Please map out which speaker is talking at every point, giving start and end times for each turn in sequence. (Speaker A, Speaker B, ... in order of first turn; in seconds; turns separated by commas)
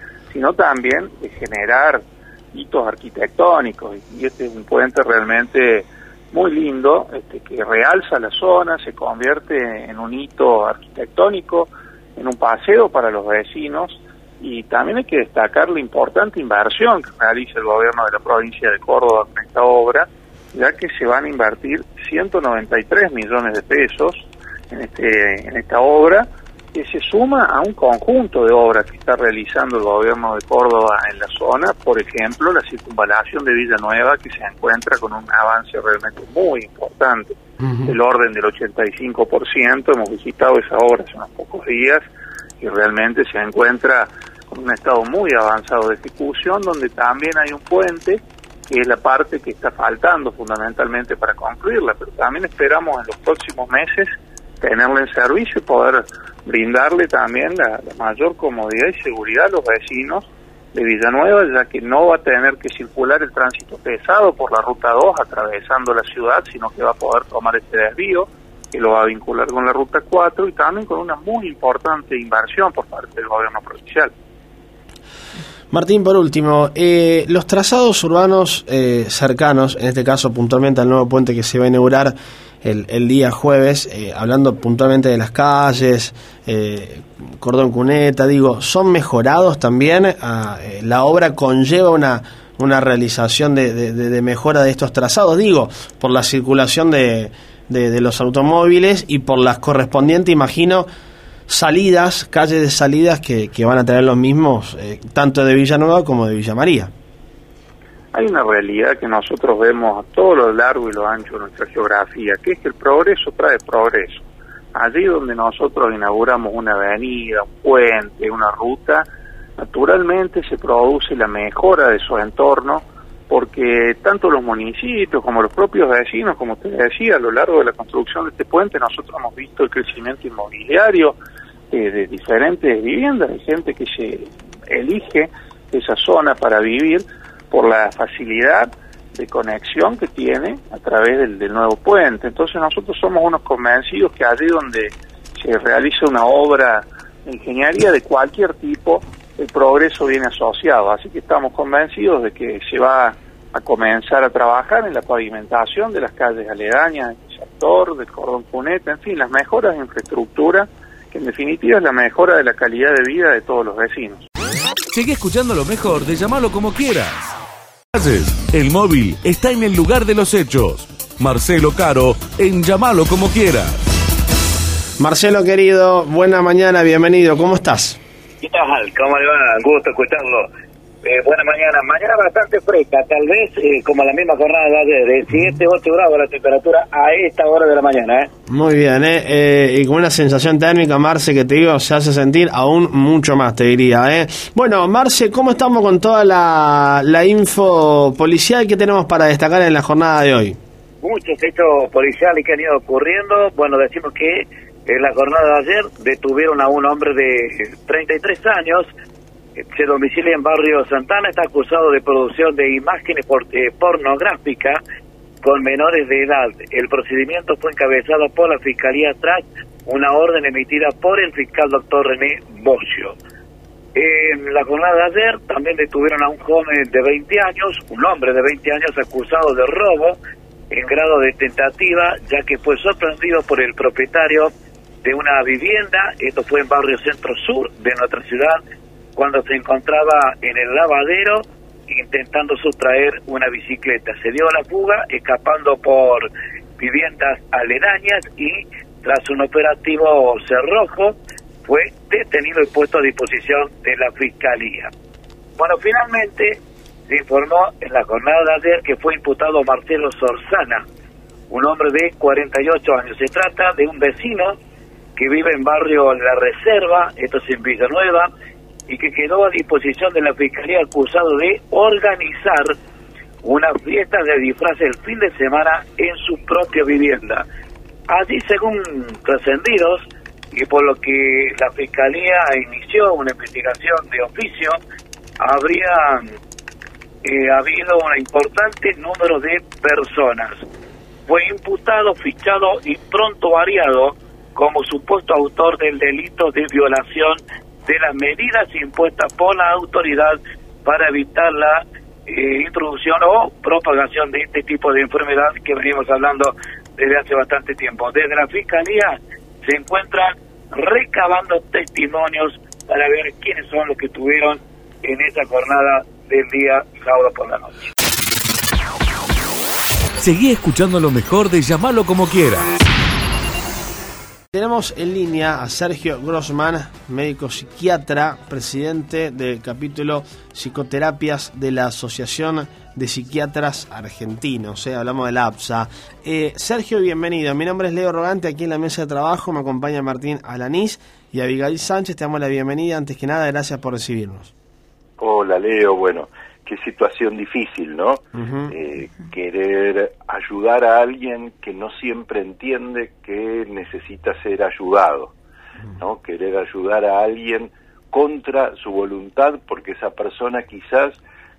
Speaker A: 0.3-42.0, Speaker B: 37.6-37.9, Speaker A: 42.6-74.1, Speaker B: 75.7-100.9, Speaker B: 101.5-106.9, Speaker A: 108.1-119.1, Speaker A: 119.6-131.2, Speaker A: 131.7-164.2, Speaker C: 164.9-167.3, Speaker C: 167.9-173.8, Speaker B: 175.0-178.0, Speaker D: 178.4-180.5, Speaker D: 181.0-188.3, Speaker B: 185.3-185.6, Speaker B: 188.5-200.6, Speaker D: 201.0-208.9, Speaker D: 209.6-214.8, Speaker D: 215.4-223.2, Speaker D: 223.9-230.2, Speaker D: 230.7-234.5, Speaker D: 235.0-238.6, Speaker D: 239.2-254.9, Speaker D: 255.6-260.8, Speaker D: 261.5-264.6, Speaker D: 265.1-268.3, Speaker D: 268.9-272.7, Speaker D: 273.4-277.4, Speaker D: 278.1-284.8, Speaker D: 285.4-286.3, Speaker D: 287.2-290.6, Speaker D: 291.2-317.8, Speaker C: 320.2-322.7, Speaker B: 324.5-344.5, Speaker E: 345.2-355.3, Speaker B: 348.3-348.7, Speaker E: 356.0-361.2